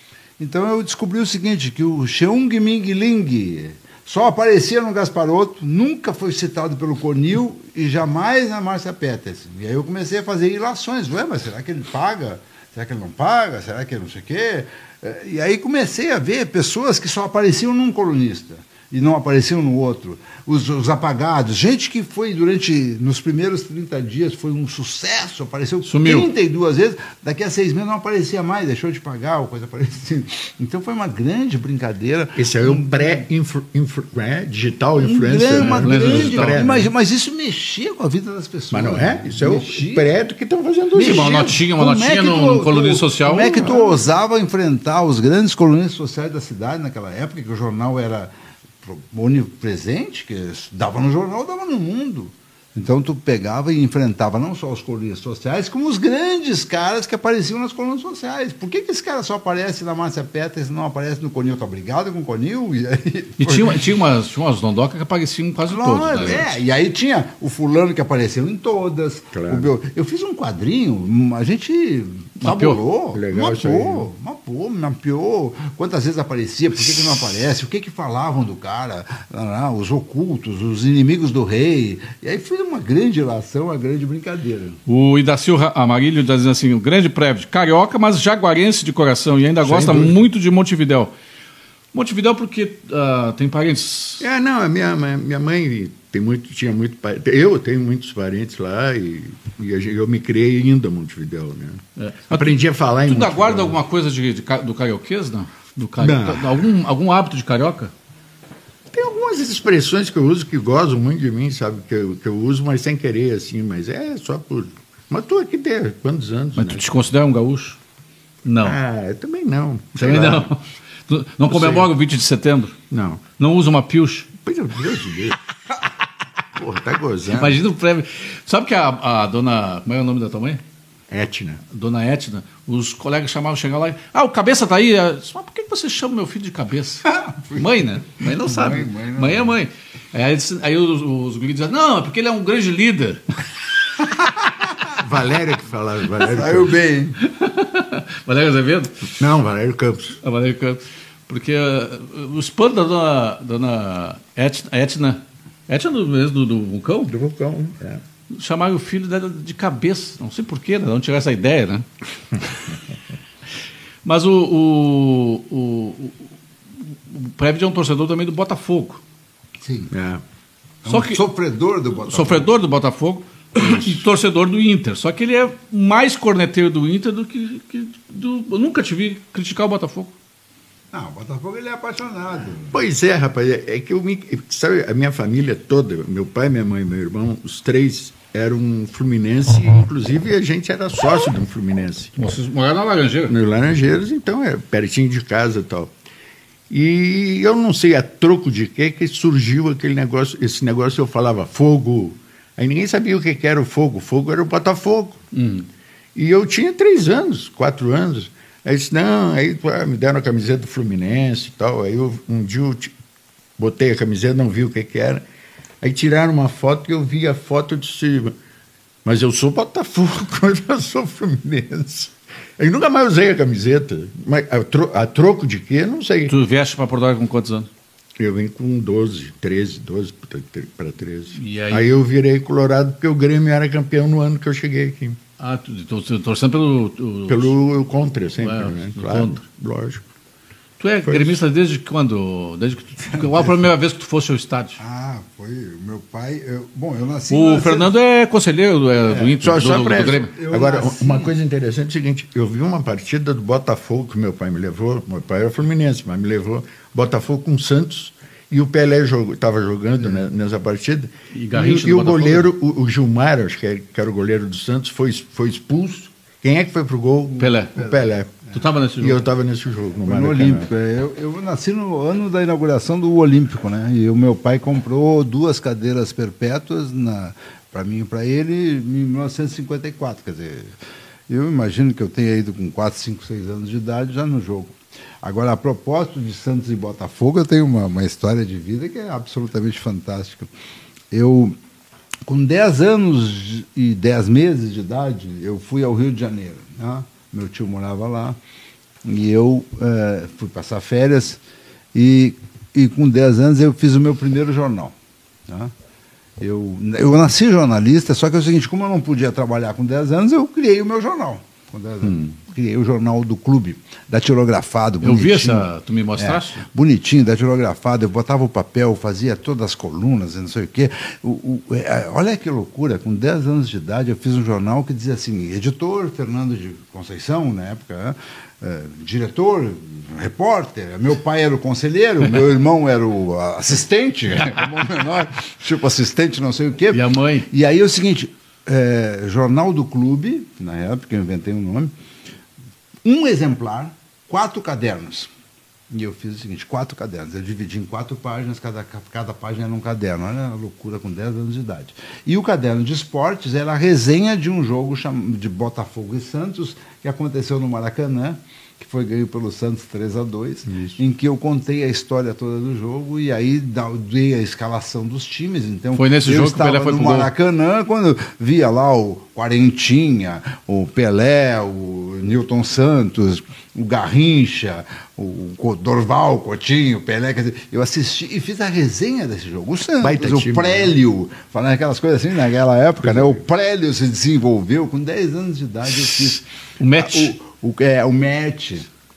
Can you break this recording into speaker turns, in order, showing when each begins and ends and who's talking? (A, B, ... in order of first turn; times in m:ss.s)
0:00.4-0:33.2 A
0:25.9-0:26.3 B
0:32.4-0:36.9 C
0:35.0-0:40.1 A
0:35.6-0:36.8 B
0:38.7-0:41.6 C
0:40.9-0:48.3 A
0:41.0-0:43.7 B
0:43.4-0:44.0 C
0:48.8-1:03.8 A
1:03.4-1:06.4 B
1:05.7-1:24.8 A
1:09.3-1:09.7 C
1:12.4-1:12.8 B
1:13.1-1:14.1 C
1:24.9-1:31.1 B
1:29.6-1:30.2 C
1:31.9-1:34.2 B
1:34.2-1:43.8 C
1:42.0-1:47.9 B
1:46.0-1:46.6 C
1:48.9-1:56.9 C
1:56.6-1:57.8 B
1:58.4-1:58.8 B
1:58.6-2:00.5 C
2:00.0-2:02.8 B
2:01.5-2:01.9 C
2:02.9-2:03.2 C
2:03.4-2:04.3 B
2:04.4-2:05.4 C
2:06.6-2:07.6 C
2:07.3-2:10.6 B
2:11.1-2:11.6 C
2:11.7-2:23.3 B
2:17.0-2:19.5 A
2:25.0-2:26.8 C
2:26.2-2:27.2 A
2:27.2-2:29.1 B
2:29.2-2:30.2 C
2:30.2-2:37.2 B
2:37.1-2:38.0 C
2:38.3-2:41.9 B
2:44.0-2:46.3 B
2:46.8-2:49.0 B
2:49.6-2:49.9 A
2:49.9-2:50.2 C
2:50.8-2:52.5 A
2:50.9-2:51.2 B
2:52.1-3:00.1 B
3:00.9-3:02.8 A
3:02.7-3:12.2 C
3:12.2-3:13.3 B
3:13.3-3:15.9 C
3:16.7-3:25.2 C
3:25.3-3:25.7 B
3:26.2-3:32.9 C
3:33.6-3:35.2 C
3:35.8-3:38.4 C
3:39.0-3:46.4 C
3:46.3-3:47.7 B
3:48.2-3:55.2 C
3:51.4-3:51.9 B
3:55.4-3:57.6 B
3:57.3-4:00.0 C
3:58.4-3:59.4 B
4:00.8-4:04.8 B
4:01.1-4:01.4 C
4:04.8-4:07.9 A
4:07.3-4:10.3 B
4:09.1-4:11.3 A
4:09.4-4:30.7 C
4:21.3-4:22.5 B
4:27.4-4:27.7 B
4:27.7-4:28.0 A
4:28.5-4:29.3 B
4:30.1-4:50.5 A
4:51.1-4:51.6 A
4:52.3-4:58.4 A
4:59.0-5:01.4 A
5:01.9-5:05.0 A
5:06.4-5:41.9 A
5:15.0-5:16.7 B
5:36.9-5:37.5 B
5:43.0-5:45.3 A
5:45.9-6:26.5 A
6:00.7-6:01.0 C
6:06.0-6:07.3 B
6:20.0-6:20.9 C
6:23.0-6:23.4 C
6:26.0-6:27.3 B
6:27.0-6:28.9 A